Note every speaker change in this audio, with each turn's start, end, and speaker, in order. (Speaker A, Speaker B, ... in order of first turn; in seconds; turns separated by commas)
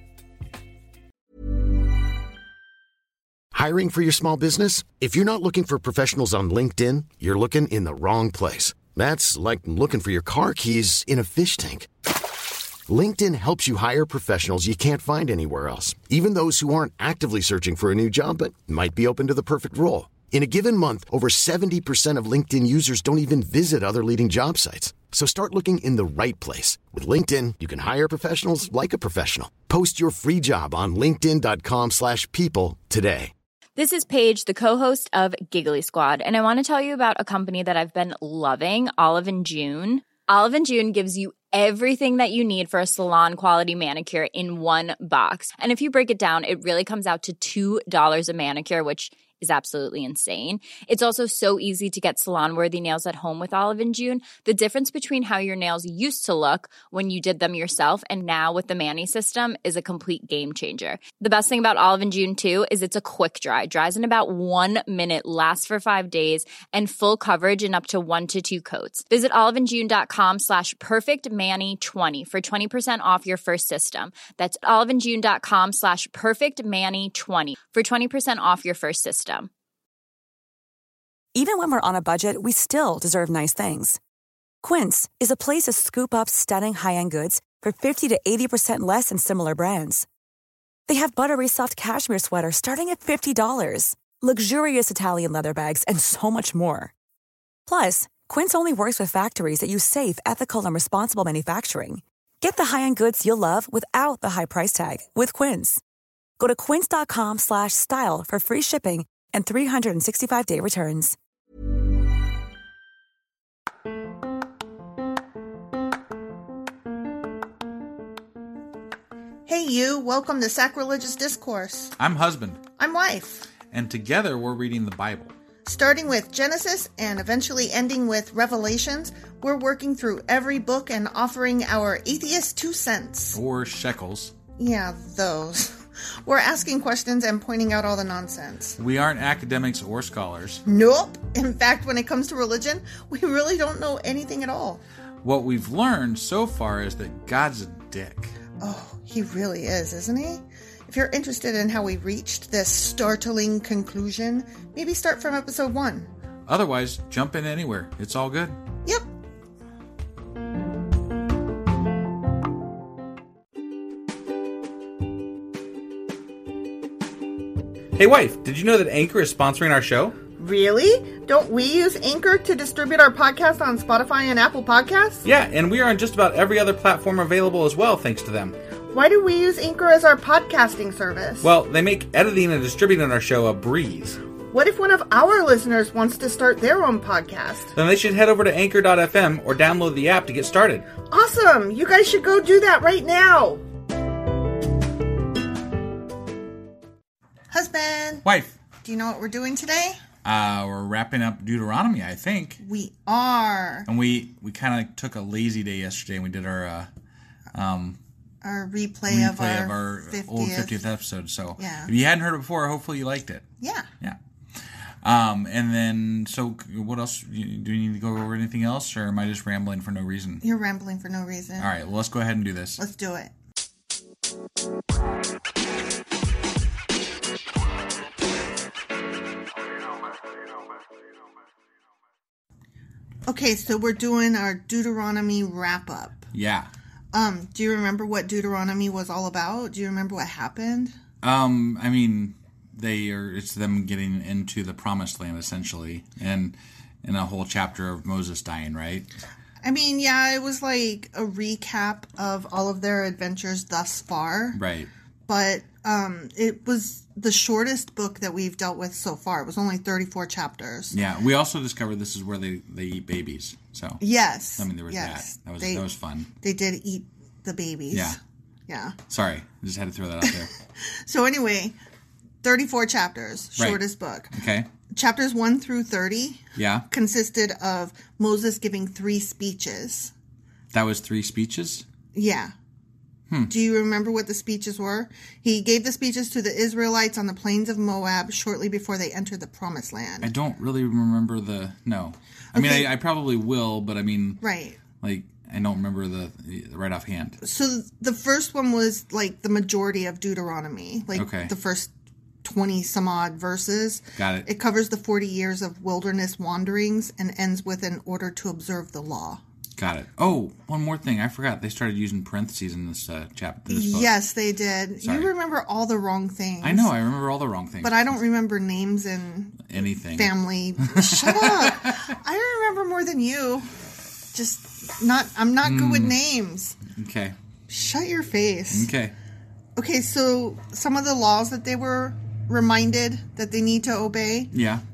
Speaker A: 3.5-11.9, Speaker A: 12.9-33.3, Speaker B: 33.8-79.5, Speaker C: 81.3-84.0, Speaker C: 84.6-90.0, Speaker C: 90.9-96.9, Speaker C: 97.7-105.8, Speaker C: 106.4-111.2, Speaker D: 119.5-122.0, Speaker E: 122.0-122.6, Speaker D: 122.8-123.5, Speaker E: 123.7-125.3, Speaker D: 125.6-133.4, Speaker E: 133.3-134.3, Speaker D: 134.6-138.8, Speaker E: 138.8-140.6, Speaker D: 140.6-144.8, Speaker E: 145.2-148.3, Speaker D: 148.6-156.1, Speaker E: 156.5-158.6, Speaker E: 167.9-170.2, Speaker D: 170.4-175.2, Speaker E: 175.2-178.6, Speaker D: 178.9-181.5, Speaker E: 181.4-184.2, Speaker D: 184.5-187.7, Speaker E: 187.7-190.9, Speaker D: 191.1-193.6, Speaker D: 197.5-198.2, Speaker E: 198.2-198.6, Speaker D: 198.8-200.0, Speaker E: 200.2-202.6, Speaker D: 202.6-203.9, Speaker E: 203.9-206.9, Speaker E: 207.5-208.0, Speaker D: 208.4-210.8, Speaker E: 209.1-213.4, Speaker D: 211.6-211.9, Speaker D: 213.6-213.9, Speaker E: 215.0-220.4, Speaker D: 220.4-221.7, Speaker E: 221.6-222.8, Speaker D: 222.8-223.3, Speaker D: 233.3-236.2, Speaker E: 236.3-236.7, Speaker D: 237.1-240.9, Speaker E: 241.2-249.1, Speaker D: 249.6-254.6, Speaker E: 254.5-254.9, Speaker D: 255.3-260.9, Speaker E: 260.9-264.0, Speaker D: 264.0-265.9, Speaker E: 264.6-266.3, Speaker D: 266.4-269.0, Speaker E: 267.9-268.2, Speaker E: 269.1-270.5, Speaker D: 270.8-271.8, Speaker D: 272.4-274.4, Speaker E: 274.3-274.7, Speaker D: 274.9-280.1, Speaker E: 276.6-276.9, Speaker E: 280.7-281.9, Speaker D: 282.1-282.5, Speaker D: 283.5-290.3, Speaker E: 290.2-294.4, Speaker D: 292.5-292.9, Speaker D: 294.4-294.8, Speaker E: 295.0-297.4, Speaker D: 297.4-301.9, Speaker E: 301.1-301.5, Speaker D: 302.4-309.4, Speaker E: 304.2-304.5, Speaker E: 309.8-314.1, Speaker D: 313.7-316.9, Speaker E: 315.0-315.3, Speaker E: 316.6-318.2, Speaker D: 317.8-323.7, Speaker E: 319.6-322.1, Speaker D: 324.3-326.8, Speaker E: 325.6-326.2, Speaker E: 326.9-327.4, Speaker D: 327.7-328.9, Speaker E: 328.7-329.1, Speaker D: 329.8-334.5, Speaker E: 334.5-334.8